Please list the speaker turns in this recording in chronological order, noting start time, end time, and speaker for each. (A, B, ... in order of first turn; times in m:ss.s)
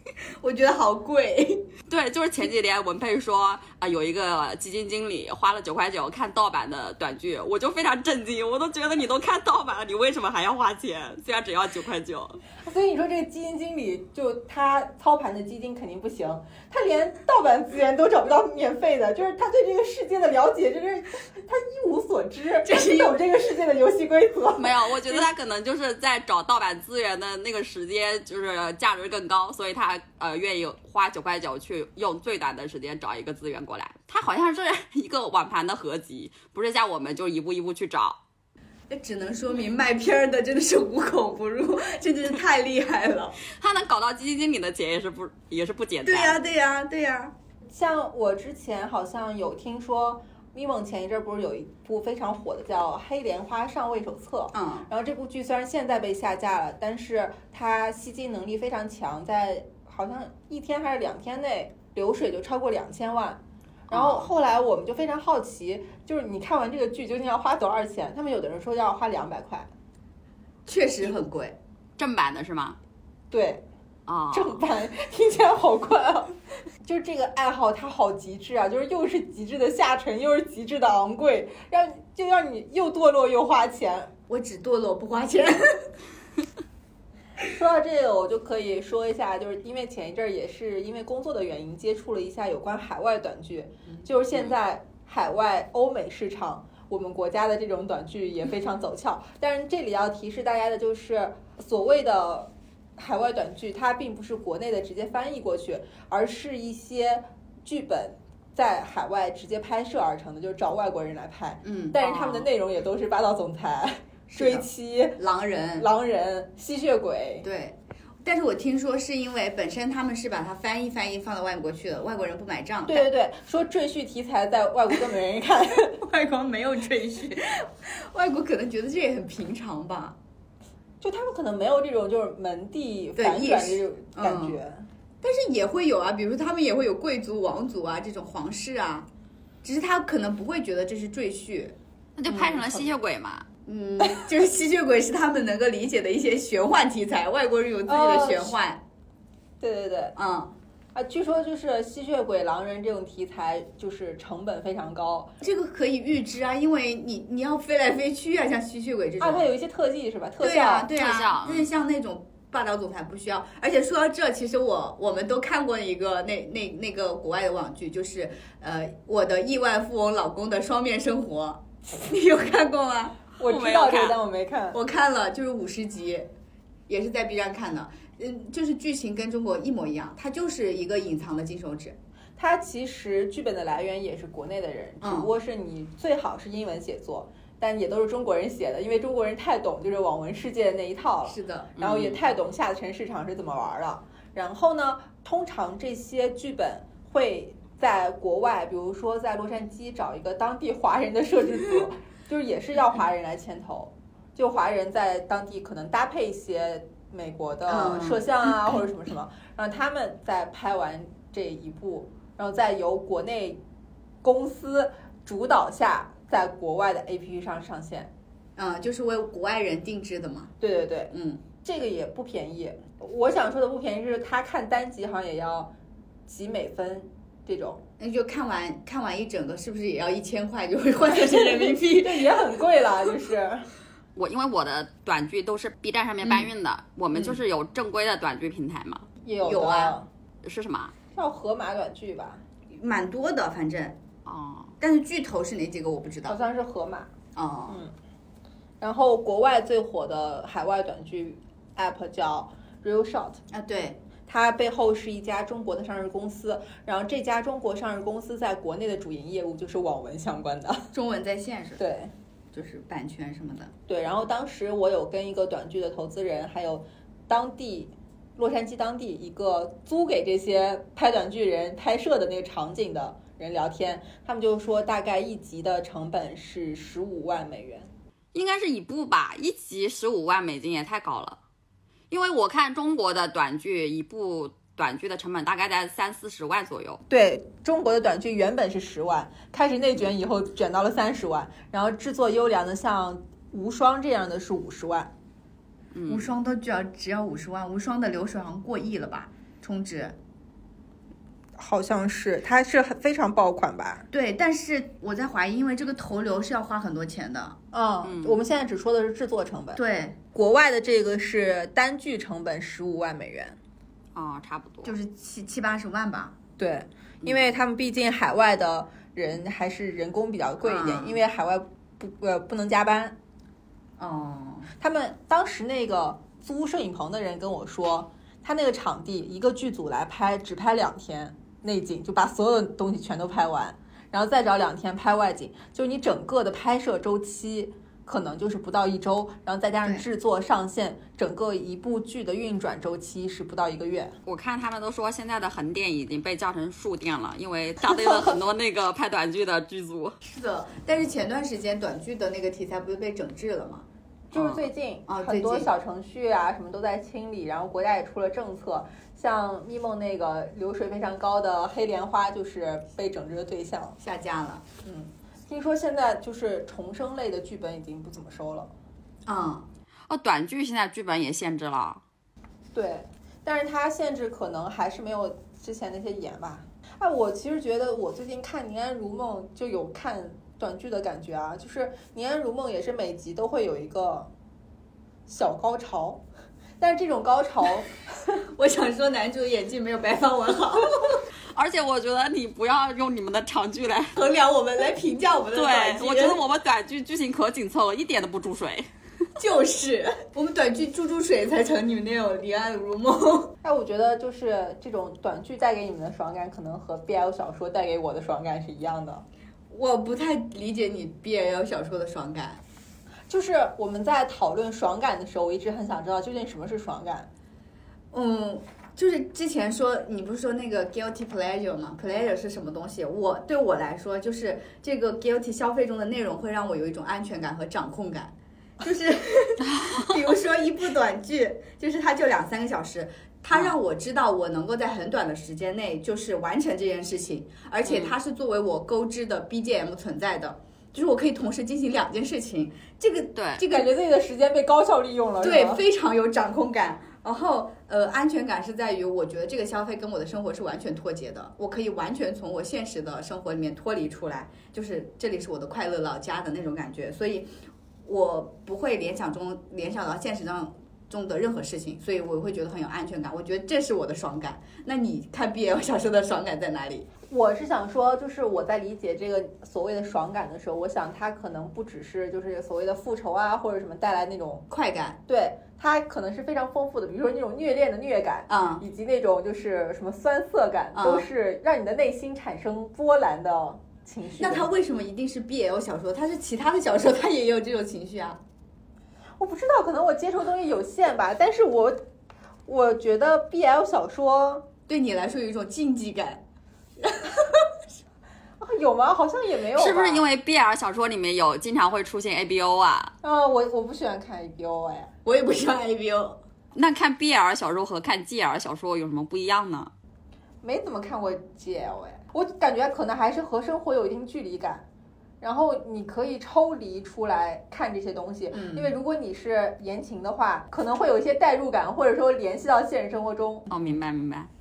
0:00.4-0:01.7 A
0:01.9-0:12.4 B
0:12.6-0:25.2 C
0:22.6-0:23.3 A
0:24.6-0:38.2 B
0:38.9-0:43.4 A
0:43.5-0:46.4 B
0:46.0-0:47.3 A
0:47.7-1:09.7 C
0:54.5-0:54.9 A
1:03.9-1:04.2 B
1:10.6-1:11.6 A
1:12.0-1:12.8 B
1:13.3-1:13.6 C
1:14.1-1:14.6 B
1:14.3-1:24.1 C
1:24.3-1:25.9 A
1:27.4-1:55.2 C
1:51.6-1:52.0 A
1:52.0-1:52.4 B
1:54.3-1:55.9 A
1:55.8-1:57.4 C
1:57.4-2:03.1 A
2:02.9-2:06.0 C
2:05.9-2:10.2 A
2:11.0-2:14.8 C
2:13.2-2:14.6 A
2:15.2-2:19.1 A
2:19.6-2:21.8 A
2:22.2-2:23.4 B
2:22.3-2:22.8 C
2:23.6-2:28.8 A
2:27.8-2:28.6 C
2:29.6-2:30.2 C
2:30.2-2:30.5 A
2:30.9-2:35.3 C
2:35.4-2:39.5 A
2:39.2-2:40.9 C
2:40.4-2:53.2 A
2:41.0-2:41.7 B
2:53.4-2:54.8 C
2:53.4-2:54.2 B
2:54.7-2:56.3 A
2:56.9-3:02.0 A
3:02.4-3:33.6 C
3:05.0-3:05.3 A
3:11.2-3:11.8 A
3:11.8-3:12.1 B
3:27.7-3:28.5 A
3:34.2-3:38.1 C
3:38.6-3:40.5 A
3:40.6-3:45.7 C
3:41.1-3:41.4 A
3:46.3-3:47.8 C
3:48.0-3:52.5 A
3:51.1-3:53.7 C
3:54.2-3:59.1 B
3:56.2-3:56.5 A
3:59.2-4:00.1 C
3:59.4-4:00.0 A
4:00.4-4:00.9 B
4:01.1-4:02.4 C
4:02.7-4:04.0 A
4:04.2-4:04.7 B
4:04.8-4:06.4 A
4:06.3-4:07.1 C
4:07.3-4:07.8 A
4:07.7-4:07.9 C
4:08.8-4:13.4 C
4:13.5-4:14.0 A
4:14.3-4:20.9 C
4:20.9-4:21.8 A
4:21.8-4:22.1 C
4:22.5-4:23.7 A
4:23.9-4:37.9 C
4:38.3-4:41.4 B
4:42.1-4:47.0 B
4:47.1-4:55.1 C
4:55.9-4:56.3 B
4:56.1-5:00.2 A
5:01.6-5:04.0 C
5:04.1-5:07.6 A
5:07.7-5:09.8 C
5:08.0-5:08.4 B
5:09.7-5:10.2 A
5:10.3-5:13.6 C
5:14.1-5:14.9 B
5:14.8-5:16.4 A
5:16.6-5:23.1 C
5:20.6-5:21.2 A
5:24.0-5:24.7 A
5:24.8-5:44.2 C
5:44.2-5:50.2 B
5:47.9-5:48.3 C
5:50.2-5:53.8 A
5:54.3-6:04.0 C
5:54.3-5:54.6 B
5:55.1-5:55.7 A
6:04.0-6:04.8 A
6:04.8-6:08.7 C
6:09.2-6:09.7 A
6:10.1-6:12.0 B
6:12.7-6:24.3 C
6:25.3-6:26.2 C
6:26.8-6:28.4 C
6:28.5-6:31.2 A
6:31.5-6:34.1 B
6:34.2-6:36.4 A
6:35.5-6:38.9 B
6:39.4-6:43.5 A
6:43.6-6:49.2 C
6:49.7-6:52.6 A
6:53.3-6:57.3 C
6:58.1-7:23.9 A
7:09.7-7:10.1 B
7:17.8-7:18.1 B
7:23.4-7:23.6 B
7:23.6-7:25.8 C
7:25.4-7:37.5 A
7:38.0-7:47.1 A
7:47.3-7:54.6 C
7:54.7-7:55.2 A
7:55.3-8:04.7 C
7:58.5-7:58.8 A
8:00.9-8:01.3 A
8:04.4-8:08.4 A
8:09.4-8:12.0 C
8:12.6-8:14.6 C
8:14.9-8:16.4 A
8:17.0-8:17.6 A
8:18.6-8:20.2 C
8:19.8-8:23.1 B
8:23.2-8:25.1 C
8:25.2-8:26.4 A
8:26.7-8:29.9 B
8:30.6-8:34.8 C
8:35.4-8:43.7 C
8:38.5-8:38.9 A
8:43.7-8:44.5 B